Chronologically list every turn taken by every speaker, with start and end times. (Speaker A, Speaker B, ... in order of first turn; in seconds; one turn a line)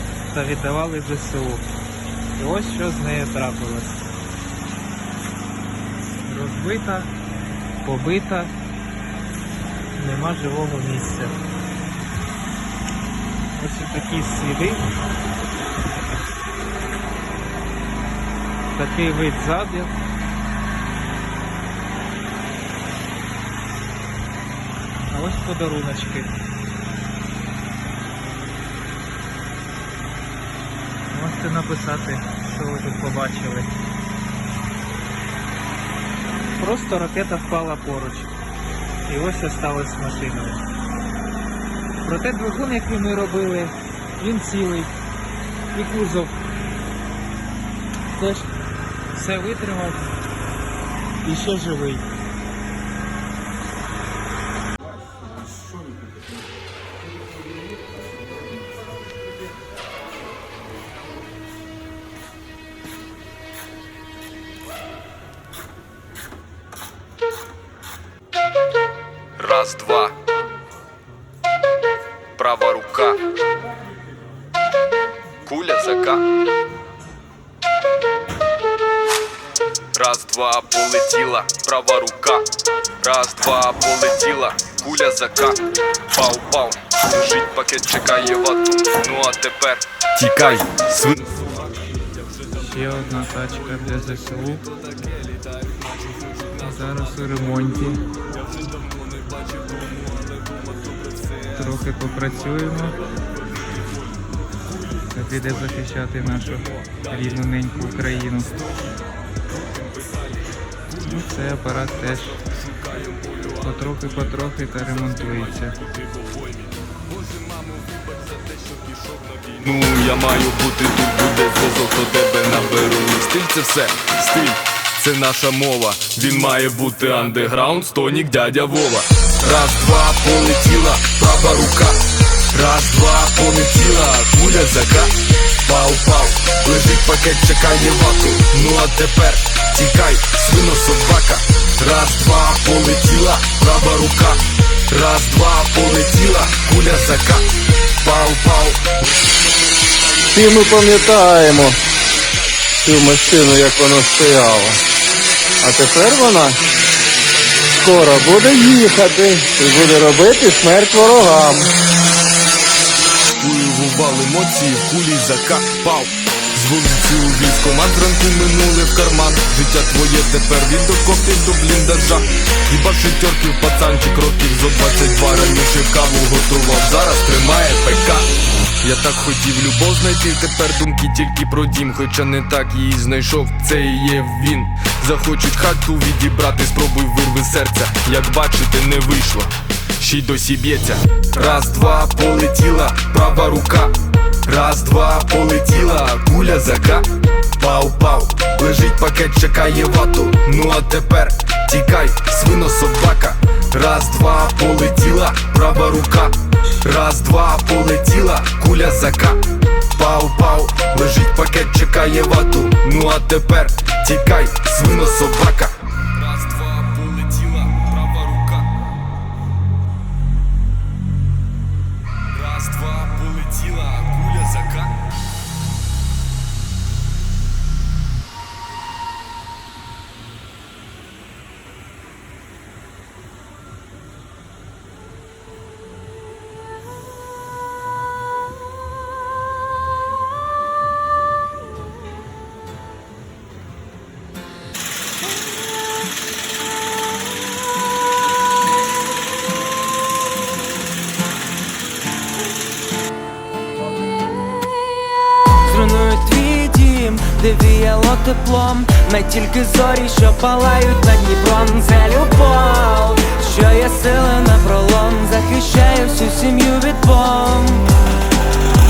Speaker A: 0.3-1.6
Speaker A: 2.4-4.0
Speaker A: 6.2-7.1
Speaker A: 7.8-8.5
Speaker A: 9.9-11.4
Speaker A: 13.6-14.8
Speaker A: 18.7-19.9
Speaker A: 25.1-26.3
Speaker A: 31.1-33.7
Speaker A: 36.6-38.3
Speaker A: 39.1-40.6
Speaker A: 42.0-44.9
Speaker A: 45.7-46.4
Speaker A: 48.1-48.5
Speaker A: 49.1-50.0
Speaker A: 51.2-52.0
Speaker B: 69.4-70.1
Speaker B: 72.4-73.2
Speaker B: 75.5-76.2
Speaker B: 79.9-82.5
Speaker B: 83.0-91.5
Speaker B: 92.5-93.0
Speaker A: 92.6-94.7
Speaker B: 93.6-97.3
Speaker A: 96.6-98.0
Speaker B: 98.3-101.6
Speaker A: 101.5-103.0
Speaker A: 105.1-108.6
Speaker B: 109.8-110.3
Speaker B: 110.9-132.0
Speaker A: 111.0-112.4
Speaker A: 113.6-115.8
Speaker B: 132.5-135.1
Speaker B: 135.6-147.5
Speaker B: 148.0-148.8
Speaker C: 150.3-151.8
Speaker C: 152.8-154.8
Speaker C: 155.6-156.6
Speaker C: 157.7-161.7
Speaker B: 163.4-178.3
Speaker B: 178.8-209.4
Speaker B: 209.9-218.7
Speaker B: 222.3-224.9
Speaker D: 255.7-267.9